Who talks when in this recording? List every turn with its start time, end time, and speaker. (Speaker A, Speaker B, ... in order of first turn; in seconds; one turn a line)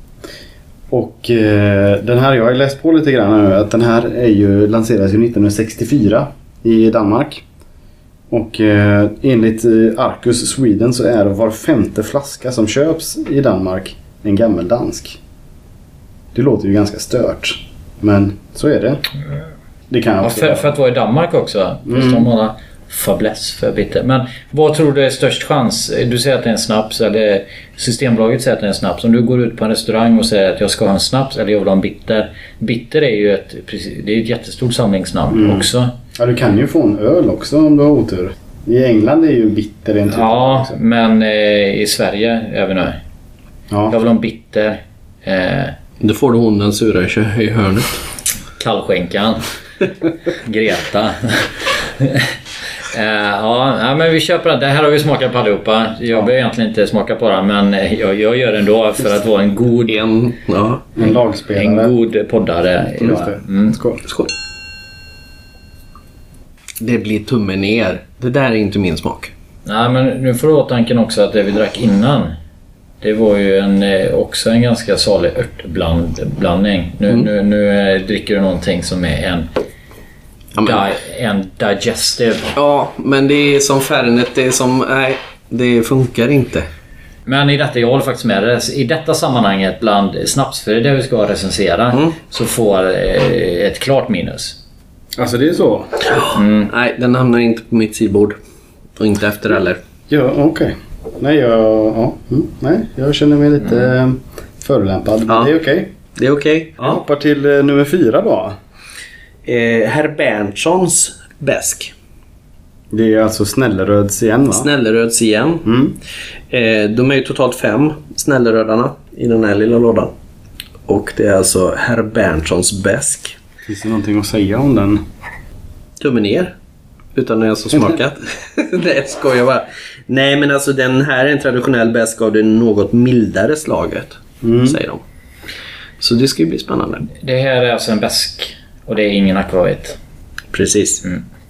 Speaker A: 0.9-7.4
Speaker A: 8.3-15.2
Speaker A: 16.3-19.0
Speaker A: 19.9-20.8
Speaker B: 20.2-35.9
Speaker A: 21.9-22.3
Speaker A: 35.3-40.8
Speaker B: 40.1-43.0
Speaker B: 43.9-45.8
Speaker C: 46.0-48.0
Speaker B: 48.6-49.4
Speaker B: 50.3-52.4
Speaker B: 52.9-60.0
Speaker C: 59.9-60.9
Speaker A: 61.0-61.9
Speaker B: 61.0-63.8
Speaker A: 63.0-64.0
Speaker C: 66.8-69.3
Speaker B: 69.7-72.3
Speaker B: 73.0-79.5
Speaker C: 80.5-80.8
Speaker B: 80.6-82.6
Speaker C: 82.5-86.7
Speaker B: 87.3-94.6
Speaker A: 95.2-96.0
Speaker C: 96.1-98.4
Speaker B: 96.3-96.7
Speaker C: 99.0-99.8
Speaker A: 100.1-105.9
Speaker C: 106.2-107.0
Speaker A: 106.8-108.6
Speaker C: 109.5-111.9
Speaker A: 112.9-114.7
Speaker C: 114.5-115.7
Speaker A: 115.7-116.0
Speaker C: 116.5-120.1
Speaker C: 120.9-123.4
Speaker A: 123.7-125.0
Speaker C: 126.0-126.5
Speaker C: 127.2-135.0
Speaker A: 134.4-134.8
Speaker C: 136.0-137.1
Speaker B: 137.2-140.0
Speaker C: 140.5-141.0